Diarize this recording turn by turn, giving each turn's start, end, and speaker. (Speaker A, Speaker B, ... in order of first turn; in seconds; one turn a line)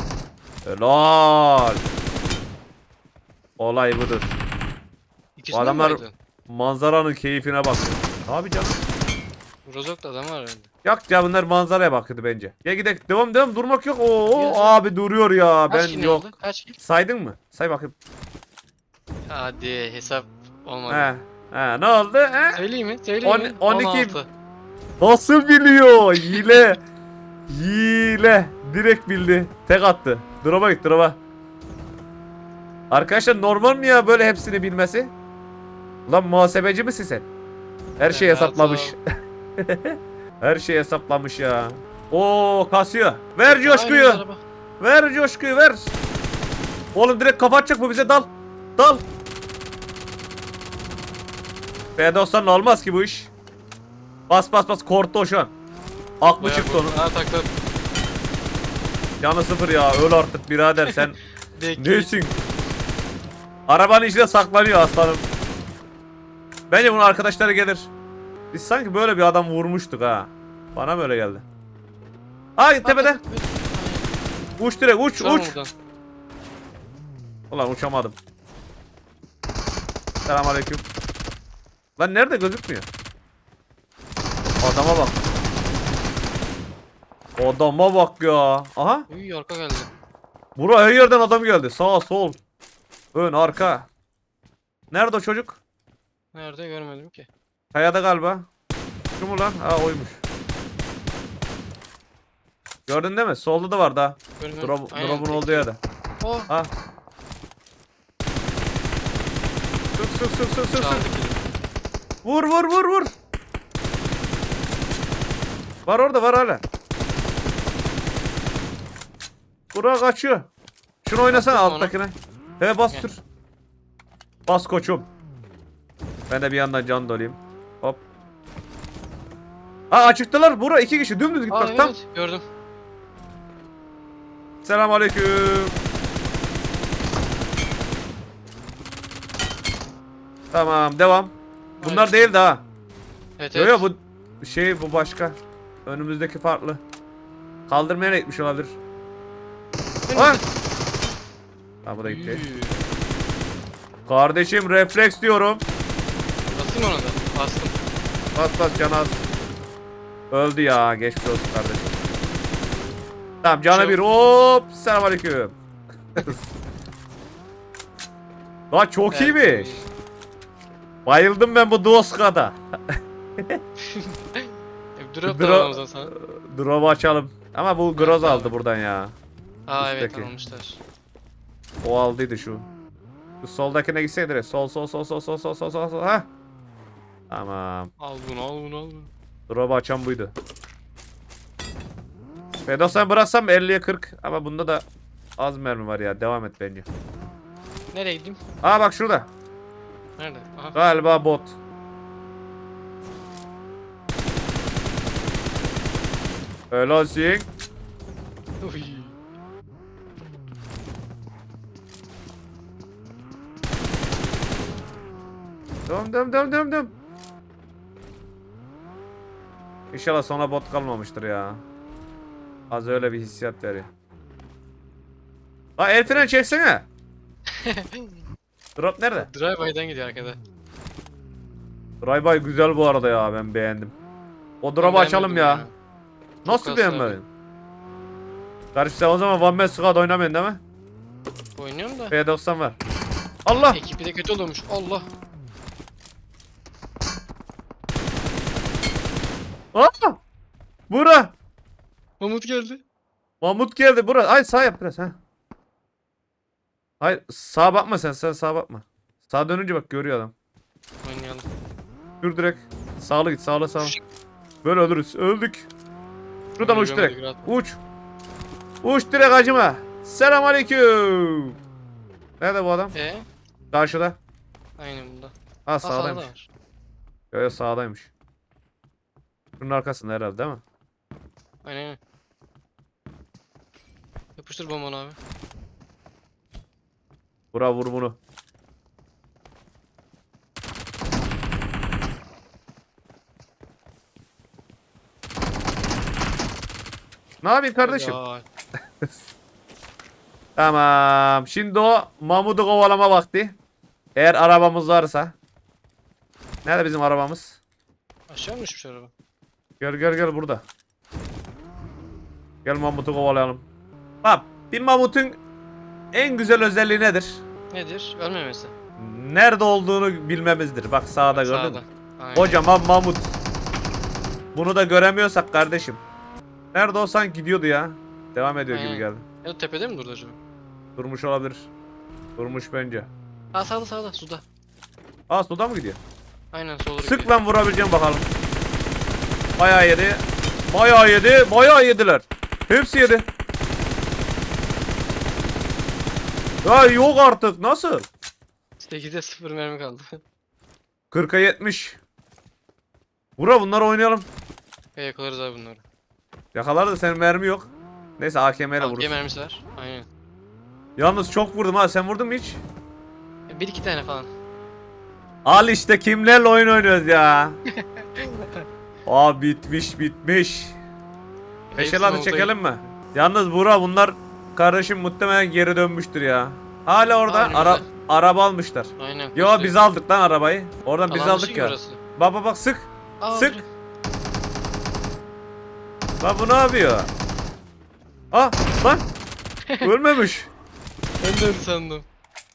Speaker A: 0.6-1.8
Speaker A: 3.6-4.3
Speaker B: 5.4-6.1
Speaker A: 5.5-8.8
Speaker B: 9.7-10.7
Speaker A: 10.8-17.9
Speaker B: 14.2-14.9
Speaker B: 15.7-16.8
Speaker B: 19.3-21.1
Speaker A: 20.9-22.6
Speaker B: 22.5-24.3
Speaker A: 23.2-24.2
Speaker A: 25.0-26.8
Speaker B: 26.3-26.6
Speaker A: 27.5-31.2
Speaker A: 32.9-35.1
Speaker A: 36.1-37.2
Speaker A: 38.0-39.0
Speaker B: 38.1-38.9
Speaker A: 39.6-44.2
Speaker B: 43.4-44.4
Speaker A: 44.8-45.9
Speaker A: 46.9-49.0
Speaker A: 52.0-53.3
Speaker A: 54.3-55.5
Speaker A: 56.2-57.0
Speaker B: 56.4-57.5
Speaker A: 59.2-61.2
Speaker B: 61.5-62.2
Speaker A: 61.8-62.4
Speaker A: 63.7-65.2
Speaker A: 66.7-67.9
Speaker A: 68.5-71.4
Speaker A: 72.6-73.2
Speaker B: 72.8-74.2
Speaker A: 74.6-75.5
Speaker B: 75.2-75.7
Speaker A: 77.5-78.2
Speaker A: 80.2-80.8
Speaker A: 82.0-82.9
Speaker A: 84.6-85.2
Speaker A: 87.4-89.1
Speaker B: 89.1-89.9
Speaker A: 90.5-92.4
Speaker A: 93.1-93.9
Speaker A: 94.9-95.6
Speaker B: 96.3-97.3
Speaker A: 97.7-98.5
Speaker A: 99.2-100.2
Speaker A: 102.9-105.8
Speaker B: 104.4-105.7
Speaker B: 106.2-106.5
Speaker A: 110.0-111.0
Speaker B: 110.7-111.4
Speaker A: 112.2-113.2
Speaker A: 115.8-116.6
Speaker A: 119.7-120.5
Speaker A: 121.0-123.2
Speaker B: 121.3-121.9
Speaker A: 124.5-125.1
Speaker A: 126.3-128.0
Speaker A: 129.9-131.9
Speaker B: 131.5-132.4
Speaker A: 134.6-135.8
Speaker A: 140.5-142.6
Speaker B: 141.8-142.3
Speaker B: 143.4-143.8
Speaker A: 143.5-146.8
Speaker A: 147.7-148.8
Speaker B: 150.1-150.4
Speaker A: 150.1-150.4
Speaker A: 151.8-152.4
Speaker B: 152.0-152.8
Speaker A: 154.1-155.6
Speaker B: 156.5-157.8
Speaker A: 158.3-159.2
Speaker A: 160.3-162.0
Speaker A: 163.4-165.6
Speaker B: 163.7-164.0
Speaker A: 166.1-166.5
Speaker A: 168.7-169.8
Speaker B: 169.1-169.8
Speaker A: 171.1-172.6
Speaker B: 173.8-176.1
Speaker A: 175.2-179.2
Speaker B: 177.9-178.5
Speaker B: 179.7-180.8
Speaker A: 179.8-180.3
Speaker A: 181.8-182.7
Speaker A: 183.4-186.3
Speaker A: 187.3-187.9
Speaker B: 188.0-189.1
Speaker A: 189.5-190.3
Speaker A: 192.7-194.8
Speaker A: 195.4-196.9
Speaker B: 197.9-198.4
Speaker A: 198.6-199.3
Speaker B: 200.2-200.8
Speaker A: 200.7-201.6
Speaker A: 206.7-207.5
Speaker B: 208.6-209.2
Speaker A: 215.9-216.9
Speaker A: 219.9-221.6
Speaker A: 222.7-223.9
Speaker A: 225.8-226.9
Speaker B: 226.0-226.4
Speaker B: 227.5-228.2
Speaker A: 228.8-229.3
Speaker B: 229.2-230.4
Speaker A: 232.0-233.9
Speaker A: 234.6-235.6
Speaker B: 234.8-235.7
Speaker B: 236.4-237.2
Speaker A: 236.4-237.2
Speaker A: 238.7-240.6
Speaker B: 241.6-242.1
Speaker A: 242.1-242.8
Speaker A: 243.4-243.8
Speaker B: 243.7-245.1
Speaker A: 249.7-250.2
Speaker A: 250.9-251.3
Speaker B: 252.2-252.8
Speaker A: 253.4-255.2
Speaker A: 257.0-260.3
Speaker B: 261.0-261.5
Speaker A: 262.2-263.9
Speaker A: 264.6-265.7
Speaker B: 266.6-267.5
Speaker A: 266.6-267.8
Speaker A: 268.8-271.6
Speaker A: 272.4-272.9
Speaker B: 272.9-273.2
Speaker A: 273.7-274.2
Speaker B: 274.8-276.5
Speaker A: 275.6-276.3
Speaker A: 277.3-278.1
Speaker A: 279.6-280.6
Speaker B: 281.6-282.0
Speaker B: 284.4-285.2
Speaker A: 287.5-288.2
Speaker A: 297.4-298.2
Speaker B: 297.8-298.4
Speaker A: 300.6-303.6
Speaker A: 304.1-305.3
Speaker A: 306.6-307.6
Speaker B: 308.3-309.1
Speaker A: 309.8-310.6
Speaker A: 312.6-313.6
Speaker A: 314.2-315.4
Speaker A: 316.1-317.4
Speaker B: 317.7-318.7
Speaker A: 319.0-321.8
Speaker B: 321.3-322.6
Speaker A: 322.3-323.3
Speaker A: 324.5-326.0
Speaker A: 326.7-329.2
Speaker B: 328.7-330.4
Speaker A: 331.0-331.7
Speaker A: 332.4-333.1
Speaker B: 333.5-334.4
Speaker A: 335.3-336.0
Speaker B: 336.5-337.3
Speaker A: 337.0-338.3
Speaker A: 339.6-343.3
Speaker A: 346.6-348.1
Speaker B: 348.8-350.2
Speaker A: 351.1-352.0
Speaker A: 353.4-354.3
Speaker B: 354.9-355.8
Speaker A: 356.5-359.1
Speaker B: 358.8-360.1
Speaker A: 361.0-362.6
Speaker B: 363.5-364.3
Speaker A: 365.4-367.6
Speaker B: 367.7-368.6
Speaker A: 369.1-370.8
Speaker B: 371.7-372.5
Speaker A: 371.8-383.6
Speaker B: 377.3-377.9
Speaker B: 379.0-379.8
Speaker B: 381.1-382.0
Speaker B: 383.2-383.6
Speaker A: 386.2-387.1
Speaker A: 388.3-389.1
Speaker A: 389.8-390.5
Speaker B: 391.2-392.0